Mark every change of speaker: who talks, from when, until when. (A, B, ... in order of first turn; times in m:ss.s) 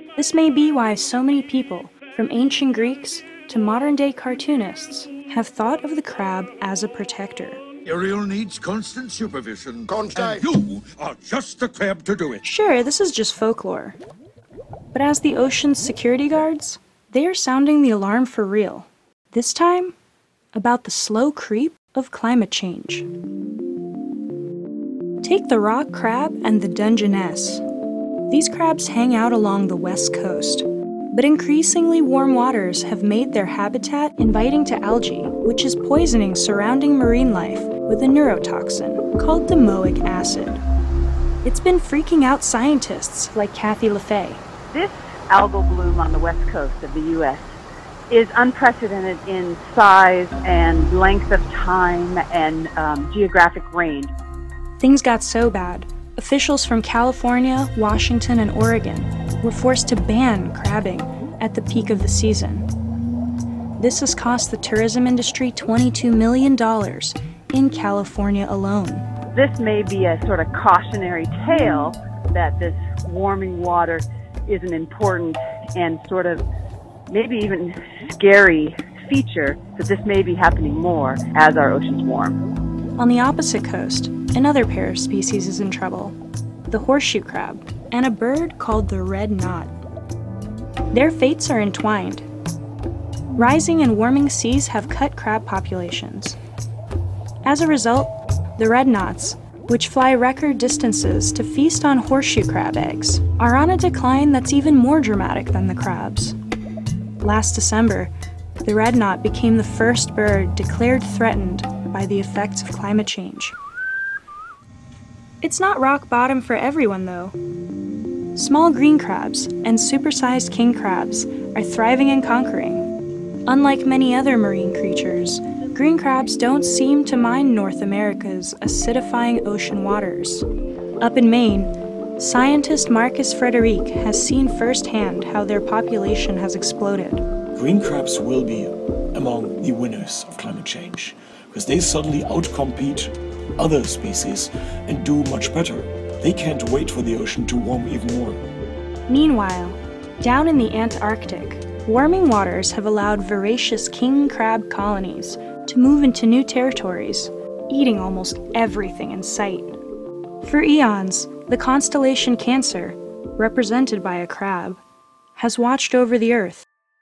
0:00.2-0:07.6 A
0:07.8-0:12.4 B
0:12.4-0:14.0 A
0:14.9-0:20.0 A
0:20.5-0:23.1 A
0:25.2-0:27.6 A
0:28.3-0:40.6 A
0:41.4-0:44.4 A
0:44.7-0:47.4 C
0:48.1-0:54.1 C
0:54.8-1:02.7 A
1:03.8-1:09.0 A
1:09.4-1:16.4 C
1:17.1-1:22.4 C
1:23.0-1:26.2 A
1:26.7-1:29.7 A
1:30.9-1:32.3 A
1:33.4-1:36.4 A
1:37.4-1:46.4 A
1:47.2-1:48.1 A
1:48.6-1:53.6 A
1:55.4-1:57.4 A
1:58.4-2:02.9 A
2:03.5-2:10.5 A
2:11.0-2:17.2 A
2:17.6-2:28.4 D
2:29.1-2:39.8 A
2:40.4-2:44.8 A
2:45.4-2:46.7 A